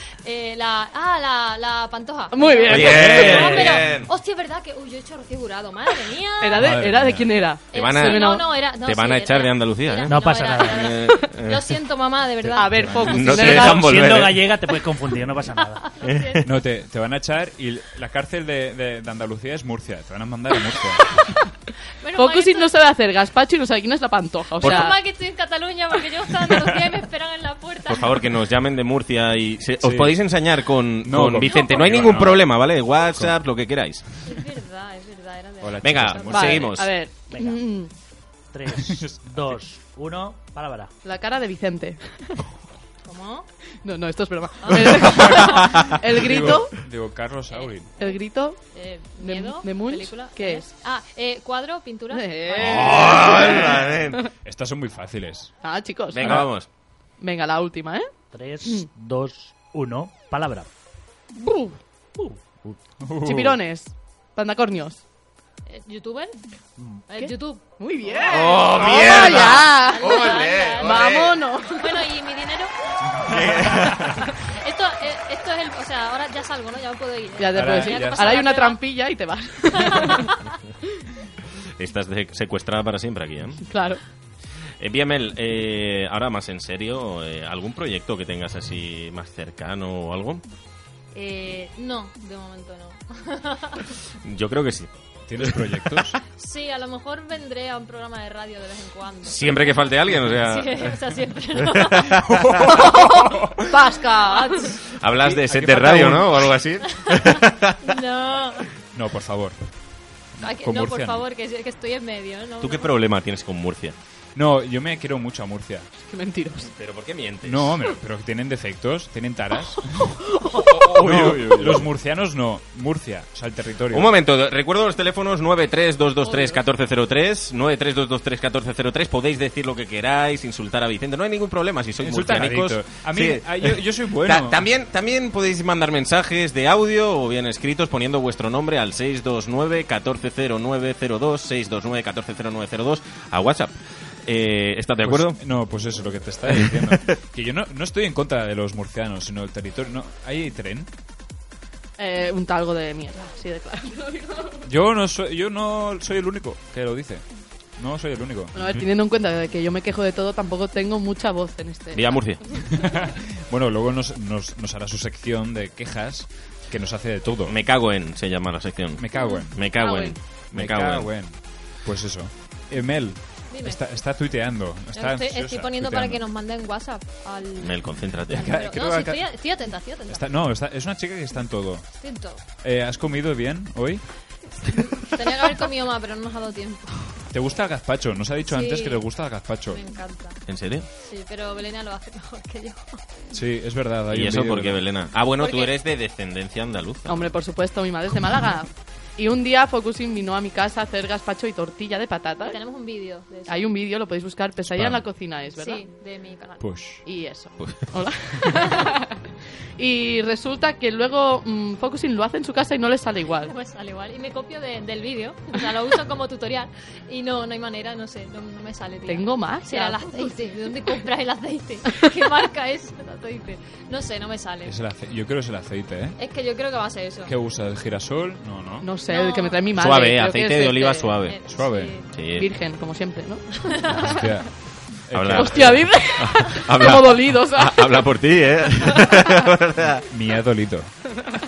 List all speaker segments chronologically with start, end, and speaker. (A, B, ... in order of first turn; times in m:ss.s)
0:00.2-0:06.7 A
0:02.3-0:03.7 B
0:02.7-0:04.1 C
0:06.4-0:08.5 B
0:06.6-0:07.3 D
0:07.7-0:12.9 A
0:07.7-0:11.7 C
0:10.1-0:10.9 E
0:12.4-0:13.7 D
0:12.6-0:13.9 B
0:12.9-0:14.5 C
0:13.7-0:15.8 E
0:15.6-0:16.4 A
0:16.0-0:16.4 C
0:16.4-0:21.2 D
0:22.0-0:22.7 A
0:22.2-0:25.0 B
0:24.6-0:28.2 A
0:24.6-0:24.9 C
0:27.9-0:34.0 C
0:29.8-0:30.1 D
0:31.0-0:32.4 D
0:34.3-0:36.4 A
0:35.6-0:36.7 D
0:35.8-0:36.9 C
0:36.3-0:37.9 B
0:37.3-0:37.6 E
0:38.5-0:40.9 E
0:38.8-0:39.5 D
0:41.0-0:42.0 B
0:43.0-0:43.5 A
0:43.8-0:46.7 B
0:44.6-0:45.5 A
0:46.2-0:47.9 D
0:47.6-0:48.2 A
0:48.0-0:48.6 B
0:48.7-0:52.9 A
0:49.1-0:50.8 B
0:52.1-0:54.2 B
0:52.5-0:54.2 C
0:54.4-0:55.5 D
0:55.6-0:56.5 B
0:56.1-0:56.7 C
0:57.2-0:58.1 B
0:58.3-1:00.7 E
1:01.4-1:01.8 B
1:02.3-1:02.8 E
1:03.0-1:03.6 D
1:03.2-1:05.0 B
1:05.7-1:06.3 A
1:06.8-1:07.1 E
1:07.1-1:07.6 A
1:07.2-1:11.8 B
1:08.2-1:11.3 C
1:09.0-1:11.1 A
1:11.8-1:12.7 A
1:13.3-1:14.2 C
1:14.6-1:18.8 A
1:17.4-1:20.3 B
1:17.5-1:18.4 D
1:19.8-1:20.3 A
1:21.8-1:23.6 C
1:23.7-1:24.0 B
1:24.8-1:30.4 C
1:31.1-1:33.8 A
1:34.2-1:36.0 C
1:35.3-1:36.2 D
1:36.4-1:39.8 A
1:39.2-1:40.9 C
1:40.4-1:42.1 A
1:41.8-1:42.7 C
1:42.3-1:43.5 D
1:43.7-1:44.7 B
1:45.0-1:47.7 C
1:45.2-1:46.3 D
1:47.1-1:48.7 A
1:48.9-1:49.6 D
1:50.4-1:51.2 D
1:50.4-1:52.9 A
1:52.6-1:54.0 C
1:54.4-1:55.9 D
1:56.0-1:56.7 B
1:56.8-1:57.9 C
1:57.4-2:00.2 D
2:00.5-2:01.9 C
2:00.9-2:04.1 D
2:03.9-2:25.4 C
2:06.2-2:06.6 B
2:12.0-2:14.6 D
2:25.0-2:30.9 D
2:26.5-2:27.1 C
2:32.0-2:34.6 B
2:34.7-2:37.2 D
2:37.8-2:38.6 D
2:38.5-2:42.1 B
2:41.9-2:42.4 C
2:42.8-2:47.5 D
2:47.5-2:51.1 C
2:49.0-2:49.7 D
2:49.2-2:49.4 A
2:49.8-2:50.2 B
2:50.5-2:56.2 D
2:53.5-2:53.8 A
2:55.0-2:57.8 A
2:57.6-2:58.5 C
2:58.3-3:00.2 A
2:58.3-2:59.3 D
3:00.1-3:02.0 D
3:02.0-3:02.4 A
3:02.6-3:04.0 D
3:04.7-3:07.1 A
3:07.3-3:09.8 D
3:08.5-3:09.0 A
3:09.7-3:10.4 A
3:10.5-3:10.9 C
3:11.0-3:13.0 A
3:13.3-3:14.8 D
3:14.1-3:17.3 C
3:15.4-3:15.7 A
3:17.1-3:22.6 B
3:22.4-3:23.7 A
3:23.5-3:25.9 B
3:24.7-3:25.0 D
3:25.5-3:26.6 A
3:26.6-3:27.0 D
3:27.0-3:29.1 B
3:29.8-3:33.5 B
3:33.4-3:44.7 A
3:39.0-3:40.4 B
3:44.6-3:46.2 D
3:46.2-3:47.3 A
3:47.3-3:48.9 D
3:48.8-3:51.2 B
3:49.1-3:49.6 A
3:49.8-3:51.4 C
3:51.3-3:52.1 A
3:51.5-3:51.9 D
3:52.1-3:52.5 C
3:52.4-3:53.4 B
3:53.8-3:54.1 A
3:54.0-3:55.9 D
3:55.1-4:00.0 C
3:55.3-3:57.8 B
4:00.1-4:00.9 D